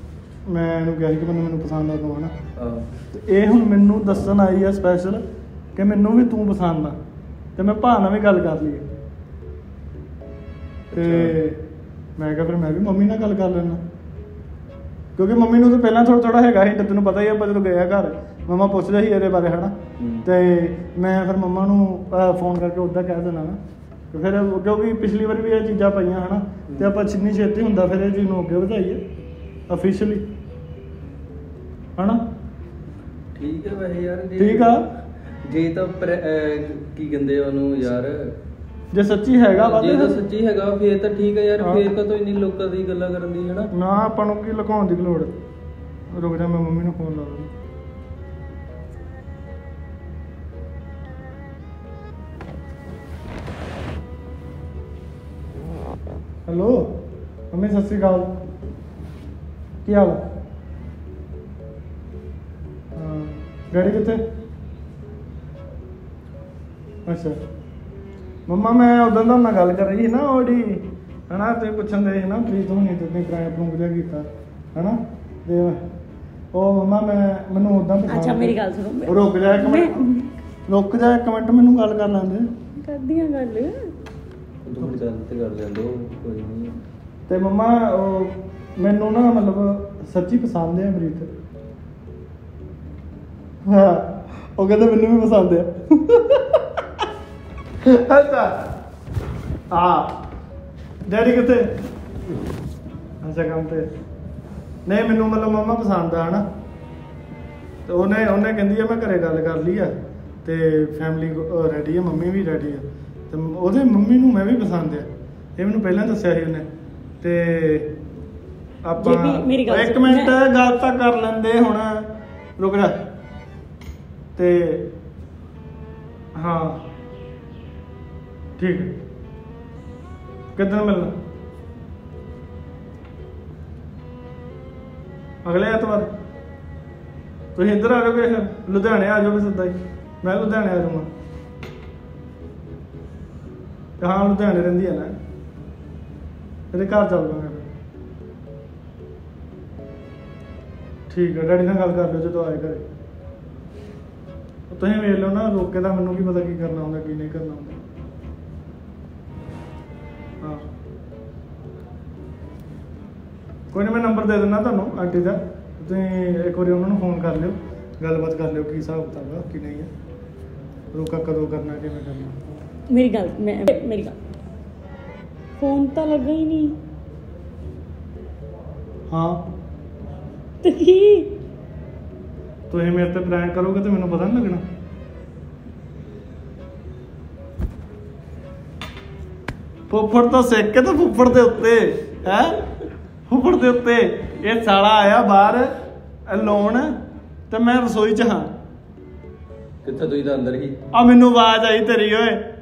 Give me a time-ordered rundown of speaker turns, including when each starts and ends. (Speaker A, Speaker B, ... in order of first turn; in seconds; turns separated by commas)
Speaker A: 0.5-2.3, Speaker B: 2.6-2.9, Speaker A: 3.1-5.2, Speaker A: 5.8-7.0, Speaker A: 7.6-8.9, Speaker B: 10.9-11.4, Speaker A: 10.9-11.6, Speaker A: 12.2-13.8, Speaker A: 15.2-19.7, Speaker B: 20.0-20.3, Speaker A: 20.2-23.6, Speaker A: 24.1-29.0, Speaker B: 26.7-27.0, Speaker A: 29.7-30.2, Speaker A: 32.0-32.2, Speaker B: 33.4-34.8, Speaker A: 34.4-34.9, Speaker B: 35.4-38.3, Speaker A: 38.9-40.2, Speaker B: 39.5-43.7, Speaker A: 41.6-41.9, Speaker A: 43.7-45.3, Speaker A: 46.1-47.5, Speaker A: 56.5-56.9, Speaker A: 57.5-58.4, Speaker A: 59.8-60.2, Speaker A: 63.0-64.2, Speaker A: 67.0-67.4, Speaker A: 68.5-75.8, Speaker A: 76.5-80.0, Speaker C: 78.1-80.4, Speaker A: 80.7-82.5, Speaker C: 82.8-83.9, Speaker B: 84.7-86.8, Speaker A: 87.3-91.3, Speaker A: 93.7-96.7, Speaker A: 97.8-98.7, Speaker A: 99.7-100.2, Speaker A: 101.1-101.8, Speaker A: 103.2-103.9, Speaker A: 104.9-106.4, Speaker A: 107.9-109.9, Speaker A: 110.4-116.7, Speaker A: 117.2-117.9, Speaker A: 118.8-122.0, Speaker C: 119.0-120.3, Speaker A: 122.6-123.0, Speaker A: 124.4-124.9, Speaker A: 126.4-126.8, Speaker A: 128.6-128.9, Speaker A: 130.6-131.1, Speaker A: 135.4-136.1, Speaker A: 137.6-141.1, Speaker A: 144.0-145.2, Speaker A: 146.7-147.7, Speaker A: 151.1-152.8, Speaker A: 154.7-157.8, Speaker A: 163.7-169.9, Speaker A: 170.9-172.4, Speaker C: 172.9-174.2, Speaker C: 175.6-176.8, Speaker A: 179.1-179.4, Speaker C: 180.6-181.4, Speaker A: 182.7-184.6, Speaker A: 189.9-192.6, Speaker A: 193.3-195.7, Speaker A: 196.3-197.0, Speaker A: 197.5-198.5, Speaker B: 199.8-200.8, Speaker A: 200.9-202.4